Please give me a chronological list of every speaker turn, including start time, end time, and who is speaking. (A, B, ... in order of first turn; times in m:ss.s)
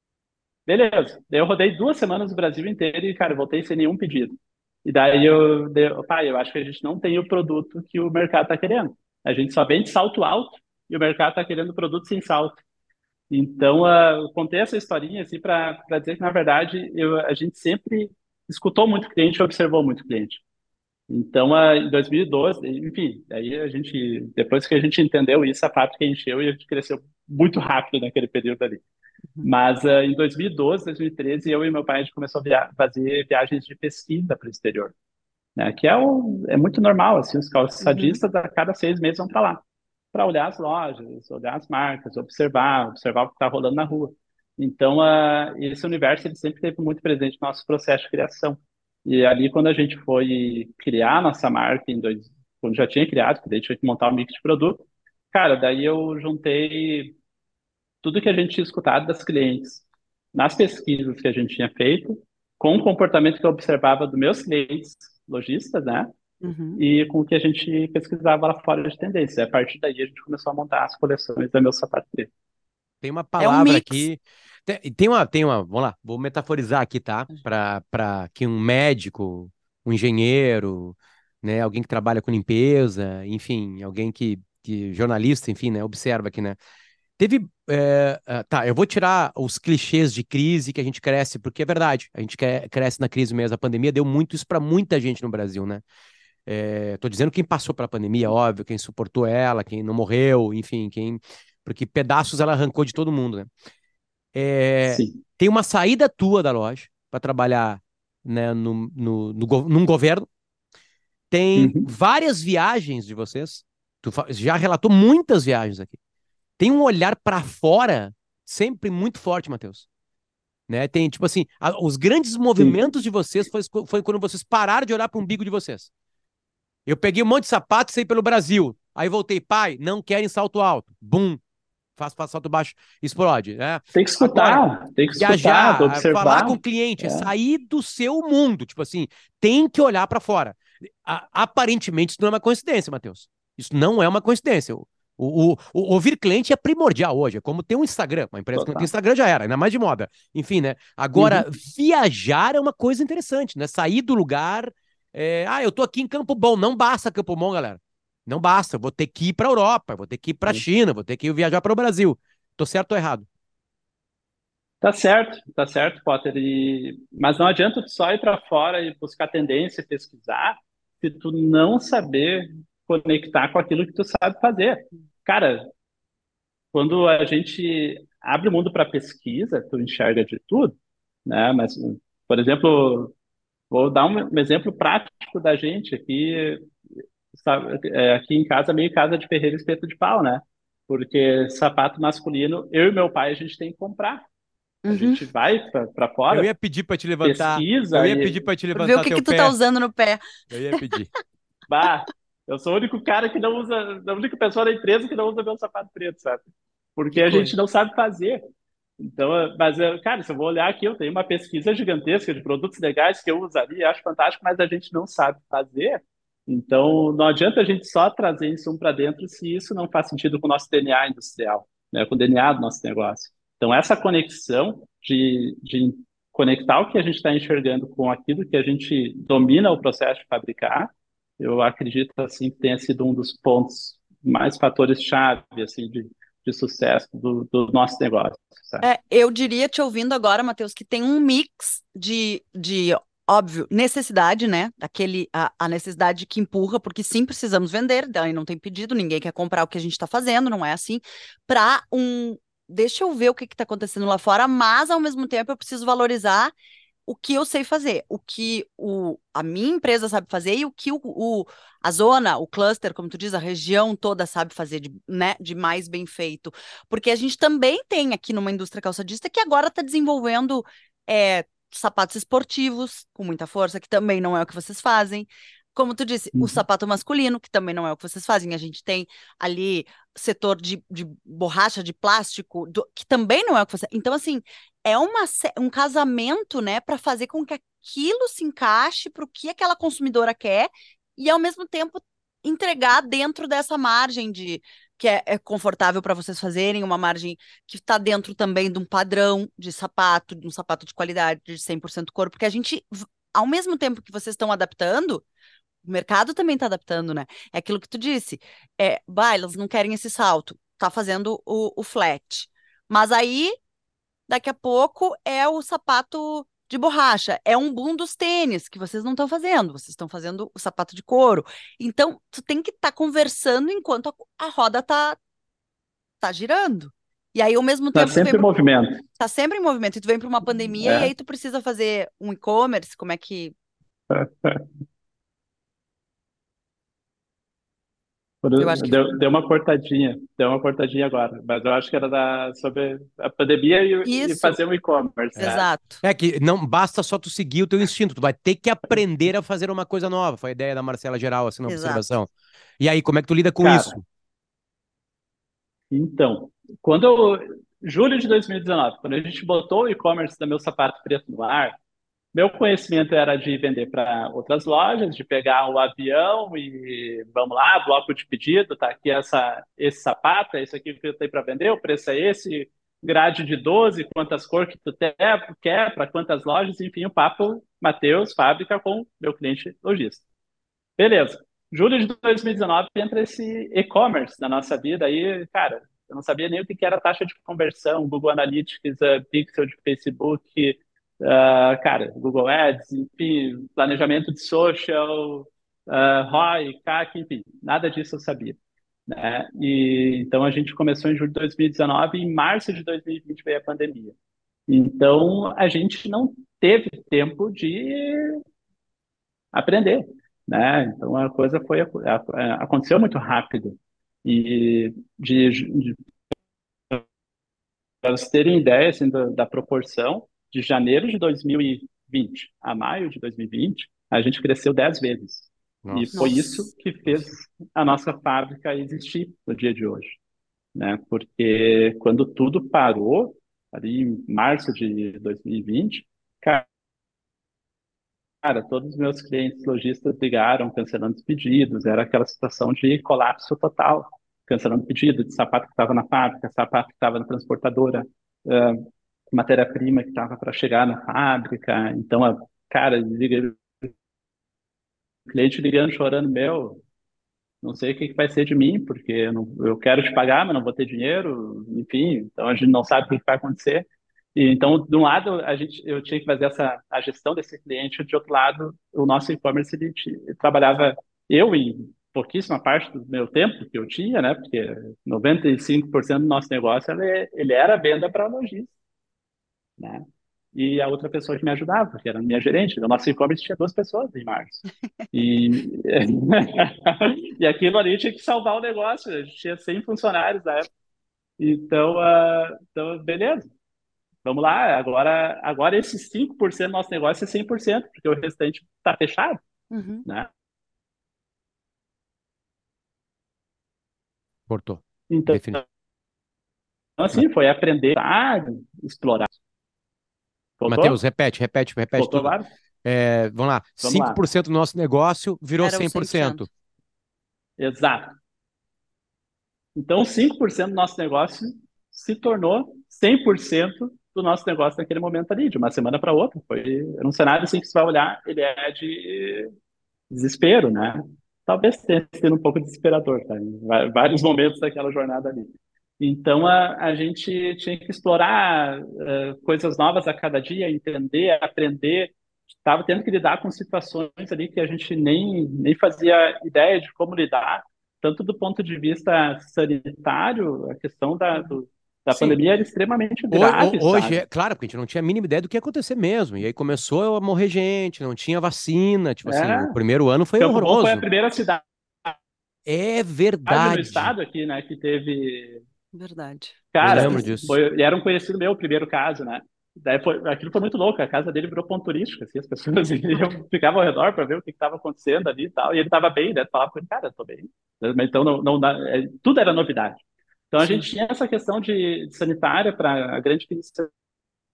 0:00.7-0:12.6 A
0:13.3-0:20.4 A
0:21.1-0:28.8 A
0:29.4-0:34.9 A
0:35.6-0:57.1 A
0:37.8-0:38.2 B
0:58.0-1:06.1 A
1:06.4-1:06.8 B
1:06.8-1:12.3 A
1:13.0-1:26.6 C
1:13.4-1:14.1 B
1:27.2-1:35.8 C
1:36.4-1:43.5 C
1:44.3-1:50.3 C
1:44.8-1:45.2 A
1:51.3-1:56.0 C
1:51.6-1:51.9 A
1:56.6-1:59.8 C
2:00.7-2:05.9 C
2:06.9-2:11.4 C
2:12.0-2:14.6 C
2:13.9-2:17.3 A
2:15.2-2:43.2 C
2:28.5-2:28.9 A
2:31.2-2:31.4 A
2:44.8-2:55.7 A
2:56.7-3:00.7 A
3:01.2-3:03.1 A
3:03.7-3:06.7 A
3:07.3-3:14.2 A
3:14.8-3:15.2 B
3:14.9-3:16.5 A
3:16.3-3:19.6 C
3:17.2-3:18.4 A
3:18.7-3:20.8 B
3:20.5-3:21.1 C
3:21.7-3:26.4 A
3:27.0-3:28.4 A
3:27.1-3:27.5 B
3:29.0-3:58.8 A
3:58.8-4:16.5 B
4:17.0-5:05.2 B
4:36.3-4:36.6 A
5:05.8-5:13.6 B
5:14.3-5:25.2 B
5:26.2-5:28.4 B
5:27.9-5:29.0 A
5:29.2-5:33.5 B
5:30.8-5:31.1 A
5:34.1-5:34.6 A
5:38.4-5:45.7 A
5:38.6-5:39.0 B
5:44.0-5:44.6 B
5:45.4-5:46.0 B
5:46.0-5:54.0 C
5:51.6-5:52.1 B
5:53.6-5:53.9 A
5:55.9-6:01.8 A
6:02.3-6:20.2 A
6:21.0-6:44.2 A
6:44.7-6:48.4 A
6:49.5-6:56.0 A
6:58.0-7:10.2 A
7:05.8-7:06.2 C
7:06.1-7:06.7 B
7:10.7-7:16.6 A
7:18.4-7:33.9 A
7:35.3-7:36.8 A
7:37.6-7:58.7 A
7:59.8-8:10.7 A
8:11.4-8:13.5 A
8:14.2-8:19.4 A
8:19.7-8:20.0 B
8:24.5-8:25.6 C
8:25.1-8:25.6 A
8:27.0-8:29.3 A
8:30.6-8:31.0 A
8:30.7-8:36.5 C
8:32.0-8:32.4 A
8:33.8-8:34.2 A
8:35.6-8:36.5 B
8:37.6-8:38.2 A
8:39.7-8:49.5 A
8:50.1-9:14.2 A
9:12.1-9:12.4 C
9:13.3-9:21.0 C
9:19.2-9:19.7 A
9:20.4-9:22.2 A
9:22.6-9:24.1 C
9:23.5-9:25.6 A
9:25.9-9:27.3 B
9:26.7-9:43.9 A
9:26.8-9:27.6 C
9:40.6-9:40.9 B